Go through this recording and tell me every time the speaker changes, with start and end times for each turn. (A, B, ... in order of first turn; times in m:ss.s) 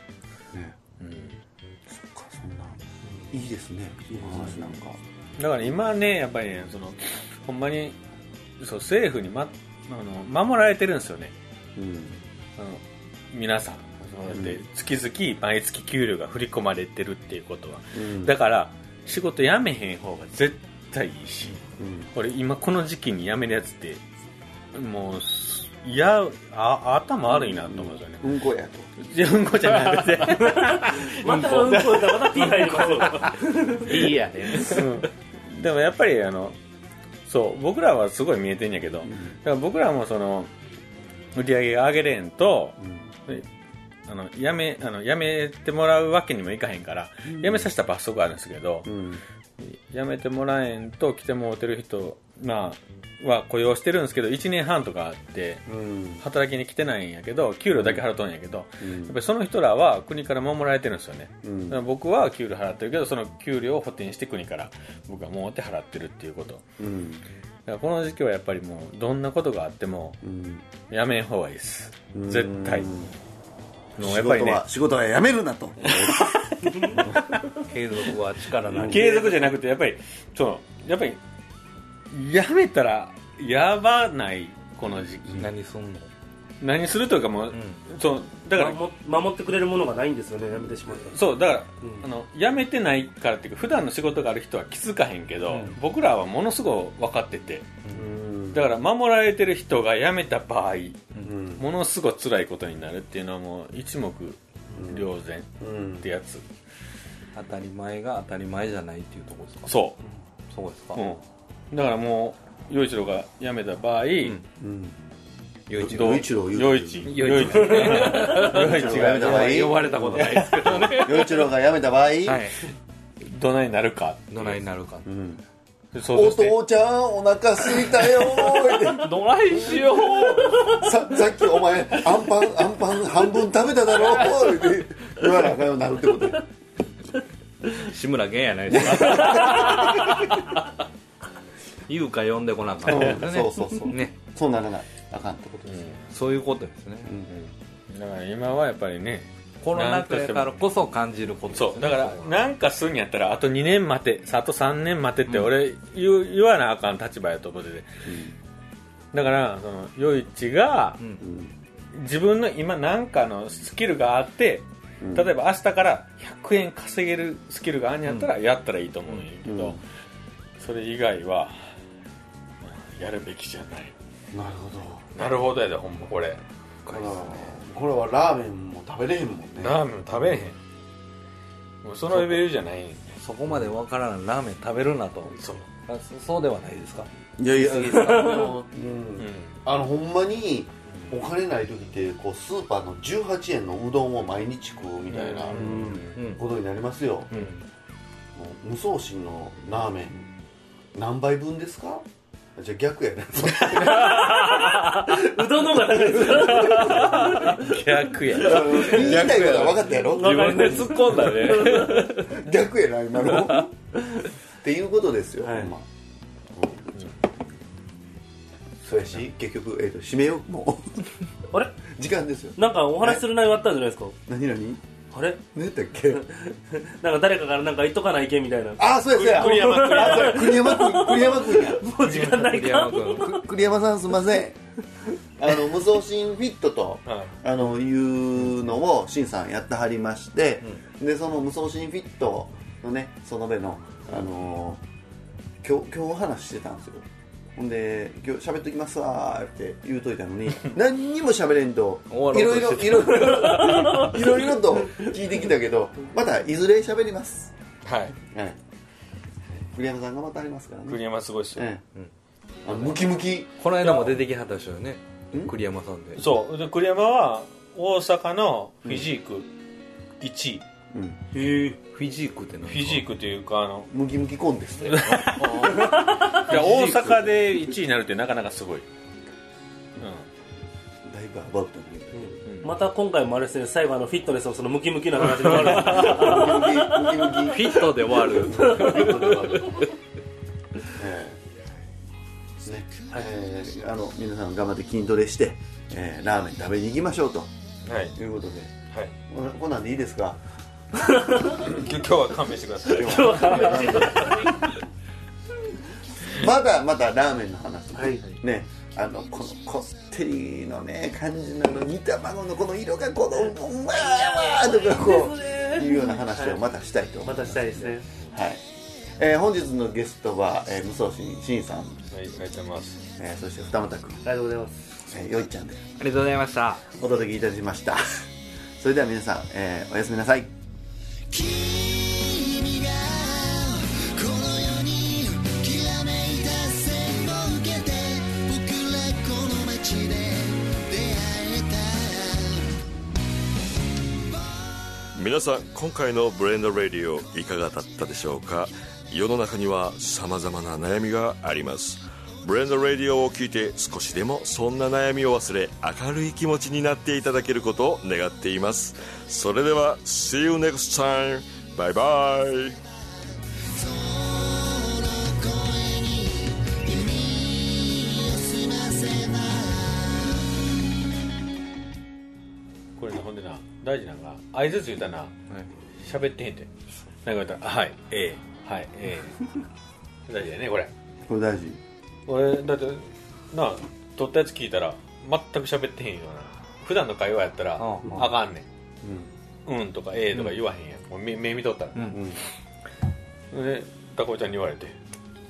0:00.5-0:00.8 A
0:01.0-0:01.4 B
0:01.9-0:02.8 A
0:03.3-0:05.0 A
0:05.4-0:08.0 B
0:08.6-0:11.3 B
0:11.8-0:12.2 A
0:12.6-0:21.6 B
0:14.3-0:14.6 A
0:18.0-0:18.4 A
0:21.8-0:22.1 A
0:22.1-0:24.0 B
0:24.7-0:28.2 B
0:27.3-0:28.9 A
0:29.0-0:33.0 B
0:30.5-0:34.1 C
0:31.3-0:31.8 D
0:32.8-0:35.0 D
0:34.6-0:36.6 B
0:37.3-0:40.5 B
0:39.1-0:39.3 A
0:41.4-0:43.5 B
0:42.8-0:43.1 A
0:44.1-0:48.9 B
0:47.3-0:47.7 A
0:48.8-0:49.2 A
0:49.6-0:55.6 B
0:55.7-0:56.2 A
0:56.2-1:06.7 B
0:57.8-0:58.0 A
0:58.8-0:59.2 A
1:01.4-1:01.8 A
1:06.8-1:07.2 A
1:07.7-1:10.2 B
1:10.2-1:10.6 A
1:10.9-1:12.9 B
1:12.1-1:13.1 A
1:14.0-1:14.6 B
1:14.0-1:16.4 A
1:15.8-1:17.4 B
1:16.7-1:17.0 C
1:17.6-1:19.2 D
1:18.7-1:19.1 A
1:18.8-1:21.2 B
1:19.1-1:19.5 C
1:22.1-1:25.5 B
1:25.4-1:26.1 D
1:26.6-1:28.8 B
1:27.5-1:27.8 D
1:28.5-1:31.2 C
1:31.1-1:37.7 B
1:35.5-1:35.8 D
1:37.9-1:38.7 A
1:38.5-1:46.4 B
1:41.2-1:41.7 A
1:44.7-1:46.1 A
1:47.4-1:49.8 D
1:49.7-1:50.0 B
1:50.5-1:51.0 D
1:51.0-1:54.4 B
1:54.6-1:55.0 A
1:55.7-1:59.7 B
1:55.7-2:02.5 A
1:57.0-2:01.5 D
2:02.2-2:02.6 D
2:03.2-2:04.6 B
2:04.3-2:05.1 D
2:05.1-2:05.4 A
2:05.9-2:06.6 B
2:06.1-2:16.5 A
2:08.8-2:10.9 D
2:17.8-2:20.4 D
2:18.7-2:20.2 A
2:21.9-2:24.2 D
2:22.8-2:25.8 A
2:25.7-2:26.0 B
2:26.1-2:27.2 D
2:27.3-2:30.5 B
2:29.6-2:32.3 D
2:31.5-2:38.1 B
2:38.1-2:38.3 A
2:39.1-2:41.0 B
2:41.2-2:41.5 A
2:41.9-2:49.8 B
2:45.0-2:45.3 A
2:49.4-2:49.8 A
2:50.6-2:51.5 B
2:52.6-2:53.9 B
2:54.3-2:55.1 A
2:55.2-2:56.4 B
2:56.9-2:59.8 A
2:59.6-3:00.6 B
3:01.8-3:03.2 B
3:02.1-3:02.4 D
3:03.2-3:08.5 D
3:05.4-3:05.7 B
3:07.4-3:17.4 A
3:08.0-3:08.5 C
3:09.2-3:09.6 B
3:15.1-3:16.2 B
3:15.6-3:16.0 C
3:15.6-3:16.4 D
3:17.3-3:17.6 D
3:18.4-3:20.3 A
3:21.0-3:22.0 A
3:22.6-3:24.4 A
3:23.5-3:24.7 B
3:24.2-3:24.9 D
3:24.3-3:27.7 C
3:26.4-3:29.4 B
3:27.0-3:27.6 D
3:28.4-3:31.0 A
3:28.6-3:32.4 D
3:30.1-3:32.1 C
3:31.7-3:33.7 A
3:33.3-3:33.6 D
3:34.6-3:35.9 A
3:35.4-3:35.7 C
3:36.5-3:37.1 A
3:38.8-3:41.2 A
3:41.8-3:43.2 A
3:42.6-3:44.2 C
3:44.3-3:44.8 A
3:45.1-3:45.4 C
3:45.5-3:46.3 A
3:46.1-3:53.4 C
3:48.8-3:52.0 A
3:49.1-3:50.6 B
3:52.0-3:53.5 D
3:53.2-3:54.6 A
3:55.4-4:04.8 A
3:57.1-3:57.3 B
4:05.6-4:17.5 A
4:12.1-4:14.1 D
4:17.8-4:18.2 B
4:18.2-4:18.6 A
4:19.7-4:21.8 A
4:20.9-4:21.6 B
4:22.6-4:23.5 A
4:23.6-4:26.3 D
4:23.8-4:24.2 B
4:26.2-4:29.5 B
4:30.2-4:30.6 B
4:30.9-4:31.2 A
4:31.3-4:31.8 C
4:31.7-4:33.1 D
4:32.7-4:33.9 B
4:33.9-4:35.6 A
4:34.9-4:38.8 B
4:35.4-4:35.7 D
4:35.7-4:36.4 C
4:36.4-4:37.4 D
4:40.0-4:40.2 B
4:41.0-4:42.4 A
4:42.2-4:47.6 C
4:42.5-4:42.7 B
4:45.5-4:49.9 A
4:47.4-4:49.9 D
4:48.4-4:49.2 C
4:50.9-4:51.4 A
4:52.6-4:57.5 A
4:57.8-4:58.2 B
4:58.2-4:58.7 A
4:59.3-5:00.4 A
5:01.0-5:01.6 C
5:01.5-5:04.6 B
5:02.9-5:04.8 C
5:02.9-5:04.7 A
5:06.3-5:18.6 A
5:08.0-5:08.3 C
5:14.0-5:16.6 C
5:17.2-5:18.1 C
5:19.2-5:22.0 A
5:22.1-5:23.0 B
5:23.2-5:24.2 A
5:24.2-5:24.8 C
5:25.1-5:25.8 A
5:26.0-5:26.8 D
5:27.0-5:28.3 A
5:28.8-5:30.5 A
5:31.5-5:32.6 A
5:34.0-5:40.2 A
5:34.3-5:42.5 E
5:45.2-6:02.8 F
6:04.8-6:06.4 E
6:07.1-6:07.5 E
6:08.1-6:09.5 E
6:13.0-6:15.4 B
6:16.0-6:16.7 B
6:17.2-6:19.6 B
6:20.3-6:20.9 B
6:21.3-6:21.8 A
6:22.3-6:28.7 B
6:27.8-6:28.3 D
6:29.0-6:29.3 A
6:29.7-6:32.4 B
6:32.1-6:32.4 A
6:33.5-6:35.0 B